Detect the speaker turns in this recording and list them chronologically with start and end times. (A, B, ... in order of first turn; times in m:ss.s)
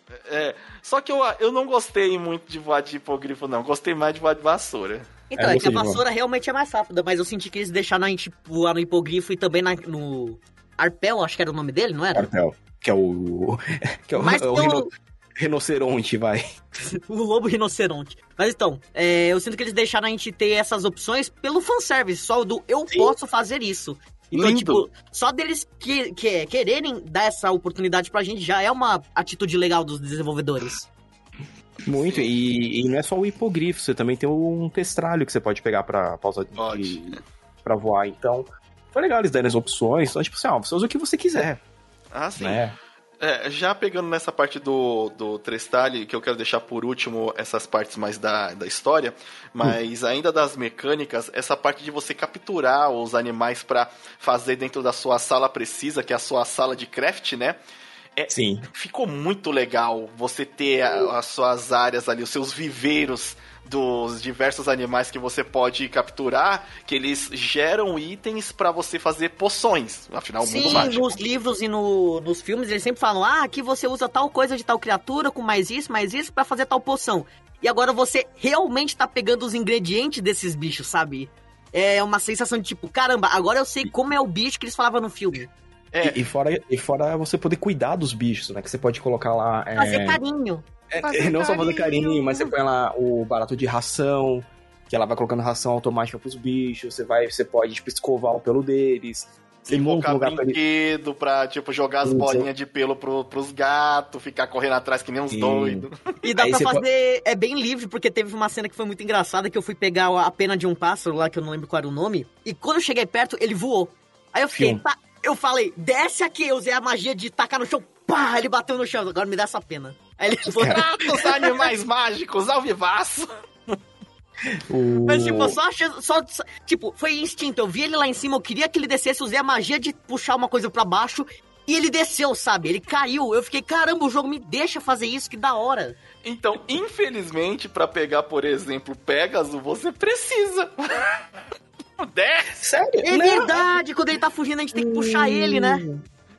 0:00.3-0:05.1 A
0:05.3-0:12.3 B
0:05.4-0:06.0 C
0:12.1-0:16.4 C
0:14.2-0:14.9 B
0:16.8-0:30.9 B
0:24.3-0:24.8 C
0:31.8-0:41.6 C
0:31.8-0:32.3 A
0:36.6-0:37.2 A
0:42.1-0:42.6 A
0:42.4-0:42.7 C
0:43.2-0:57.6 A
0:58.2-1:11.2 A
0:58.3-0:58.6 C
1:10.4-1:25.5 B
1:25.9-1:26.2 A
1:26.0-1:30.2 C
1:29.8-1:32.5 B
1:30.9-1:40.6 C
1:39.7-1:45.9 A
1:42.0-1:42.5 C
1:45.3-1:46.8 C
1:46.2-2:01.6 B
1:54.5-1:54.8 C
2:00.4-2:00.8 C
2:00.6-2:03.8 A
2:04.5-2:05.6 C
2:05.0-2:16.0 B
2:16.2-2:21.2 A
2:22.0-2:22.6 A
2:22.6-2:23.6 C
2:23.0-2:25.8 B
2:24.7-2:26.0 C